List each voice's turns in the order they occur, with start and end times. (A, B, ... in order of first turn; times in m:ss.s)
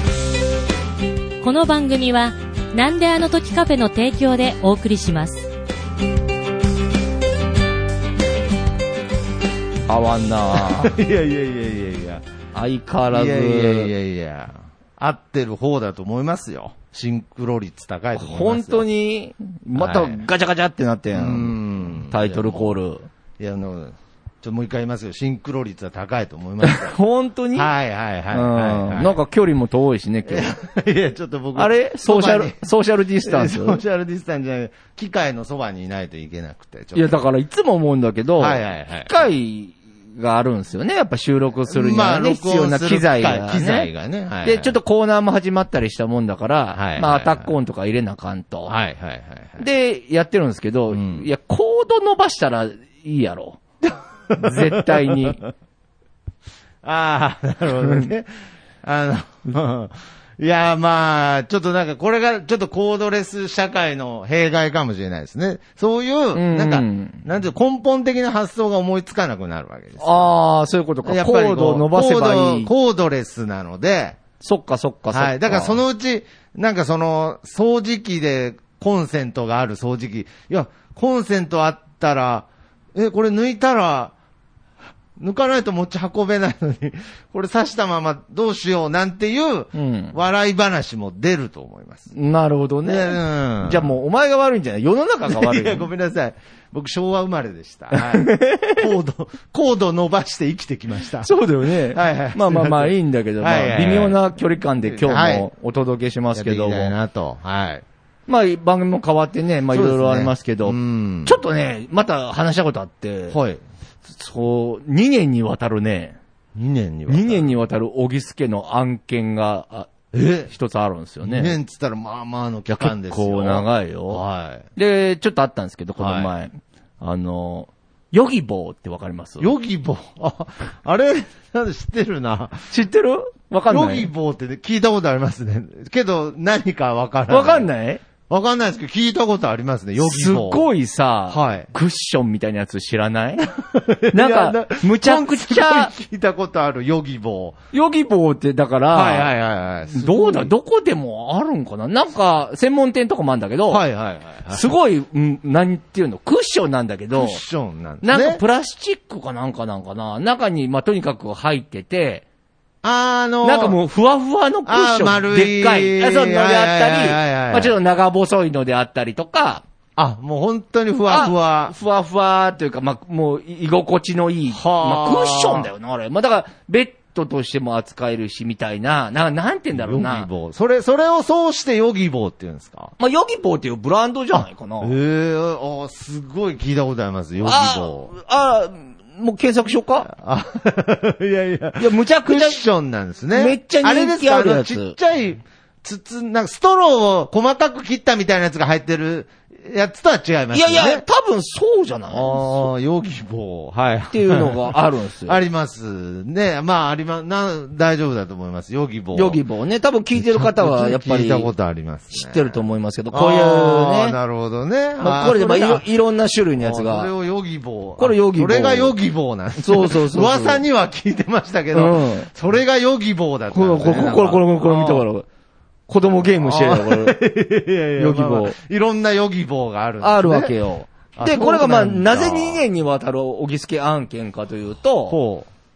0:01.4-0:05.5 A
0:09.9-0:11.0 B
0:10.5-0:12.2 C
0:12.5-0:13.9 B
0:13.1-0:18.8 C
0:18.2-0:23.1 B
0:19.8-0:20.2 C
0:21.1-0:22.8 C
0:23.4-0:27.0 C
0:26.6-0:27.7 B
0:27.6-0:29.2 C
0:28.3-0:30.5 B
0:30.3-0:32.6 C
0:31.6-0:33.8 B
0:33.2-0:37.3 C
0:37.0-0:43.9 B
0:38.4-0:39.2 C
0:41.7-0:44.8 C
0:44.4-0:48.7 B
0:46.7-0:47.5 C
0:48.7-0:49.6 C
0:49.6-0:53.6 B
0:50.9-0:51.3 C
0:54.3-0:55.5 C
0:54.4-0:55.4 B
0:56.8-0:58.3 C
0:57.8-0:58.1 B
0:58.8-1:10.3 C
1:06.3-1:07.2 B
1:10.0-1:12.7 B
1:11.1-1:14.2 C
1:14.4-1:15.8 B
1:15.1-1:24.1 C
1:25.2-1:32.1 C
1:29.7-1:30.1 B
1:32.1-1:35.9 B
1:32.8-1:33.9 C
1:35.3-1:41.3 C
1:37.9-1:38.9 B
1:41.2-1:47.0 B
1:41.9-1:44.2 C
1:44.9-1:45.5 C
1:46.3-1:47.8 C
1:48.3-1:53.4 B
1:49.7-1:51.4 C
1:53.3-1:53.6 C
1:54.1-1:56.2 B
1:56.6-1:57.5 C
1:57.1-1:59.9 B
2:00.1-2:00.5 C
2:00.5-2:01.6 B
2:01.2-2:04.7 C
2:02.7-2:04.2 B
2:04.8-2:09.5 B
2:06.0-2:06.3 C
2:09.4-2:12.7 C
2:12.7-2:14.1 B
2:13.7-2:17.7 C
2:17.3-2:18.0 B
2:18.3-2:20.6 C
2:20.0-2:23.5 B
2:21.3-2:21.7 C
2:23.6-2:27.6 C
2:24.1-2:25.9 B
2:27.7-2:29.3 B
2:28.9-2:30.5 C
2:29.9-2:33.8 B
2:33.7-2:34.7 C
2:34.5-2:37.4 B
2:37.1-2:38.4 C
2:38.0-2:42.2 B
2:42.8-2:43.8 C
2:43.4-2:49.6 B
2:44.7-2:47.8 C
2:50.0-2:51.8 C
2:51.1-3:00.3 B
2:54.6-2:55.7 C
2:59.8-3:02.9 C
3:03.0-3:05.0 B
3:04.8-3:08.1 C
3:07.4-3:10.1 B
3:10.1-3:21.0 C
3:11.8-3:12.6 B
3:13.3-3:15.0 B
3:20.5-3:22.7 B
3:22.1-3:29.4 C
3:24.1-3:25.4 B
3:29.1-3:31.5 B
3:30.2-3:32.6 C
3:32.1-3:34.2 B
3:33.1-3:35.9 C
3:35.0-3:37.1 B
3:36.6-3:45.1 C
3:38.0-3:39.0 B
3:39.6-3:40.6 B
3:41.7-3:42.3 B
3:43.5-3:45.3 B
3:45.9-3:47.2 B
3:46.2-3:50.6 C
3:48.0-3:48.6 B
3:50.0-3:55.2 B
3:51.2-3:52.7 C
3:55.1-3:55.5 C